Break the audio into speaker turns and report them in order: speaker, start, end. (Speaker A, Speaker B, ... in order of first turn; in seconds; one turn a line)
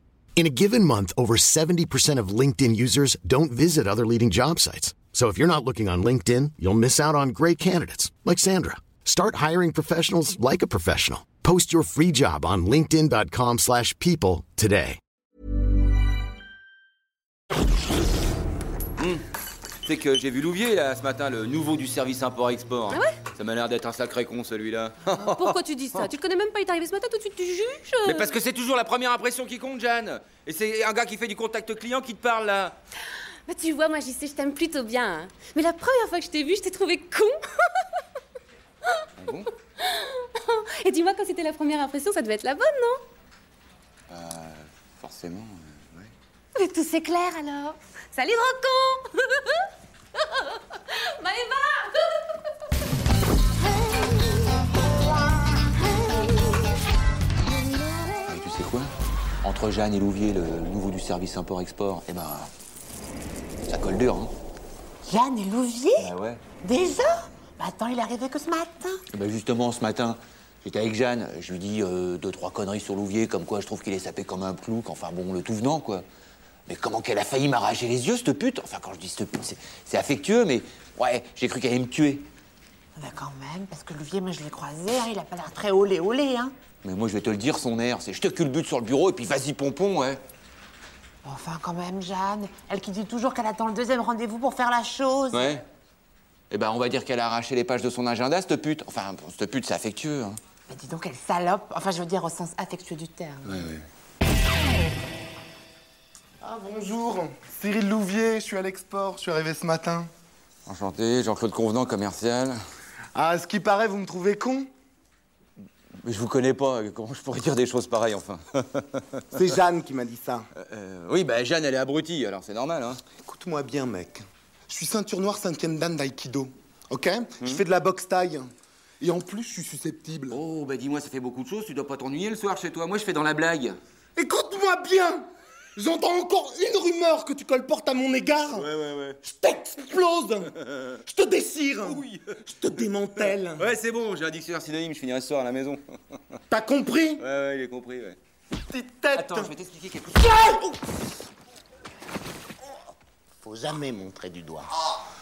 Speaker A: 0.3-15.0
Speaker B: 19.8-26.0
Speaker C: 22.9-23.2
Speaker C: 25.3-28.3
Speaker B: 28.0-32.7
Speaker C: 33.5-37.8
Speaker B: 39.2-39.5
Speaker C: 39.8-43.0
Speaker B: 44.1-46.1
Speaker C: 46.5-49.6
Speaker C: 50.5-52.3
Speaker B: 58.3-58.9
Speaker B: 59.4-62.5
Speaker B: 63.7-64.3
Speaker D: 65.0-69.0
Speaker B: 66.0-66.4
Speaker B: 69.1-76.0
Speaker B: 76.7-82.3
Speaker D: 83.0-86.5
Speaker B: 86.8-90.2
Speaker D: 91.2-95.6
Speaker B: 95.3-95.6
Speaker B: 96.5-100.4
Speaker D: 100.7-103.6
Speaker B: 103.4-103.8
Speaker E: 106.4-110.1
Speaker B: 110.7-112.6
Speaker E: 113.1-114.7
Speaker B: 116.0-119.4
Speaker E: 119.3-120.4
Speaker B: 120.6-123.0
Speaker E: 123.2-128.5
Speaker E: 129.0-130.4
Speaker B: 130.3-133.8
Speaker E: 134.2-138.7
Speaker B: 138.4-139.2
Speaker E: 139.2-140.5
Speaker E: 141.0-143.8
Speaker B: 141.8-145.8
Speaker E: 146.5-147.2
Speaker B: 147.2-148.2
Speaker E: 148.7-149.5
Speaker B: 149.1-150.4
Speaker E: 153.5-154.6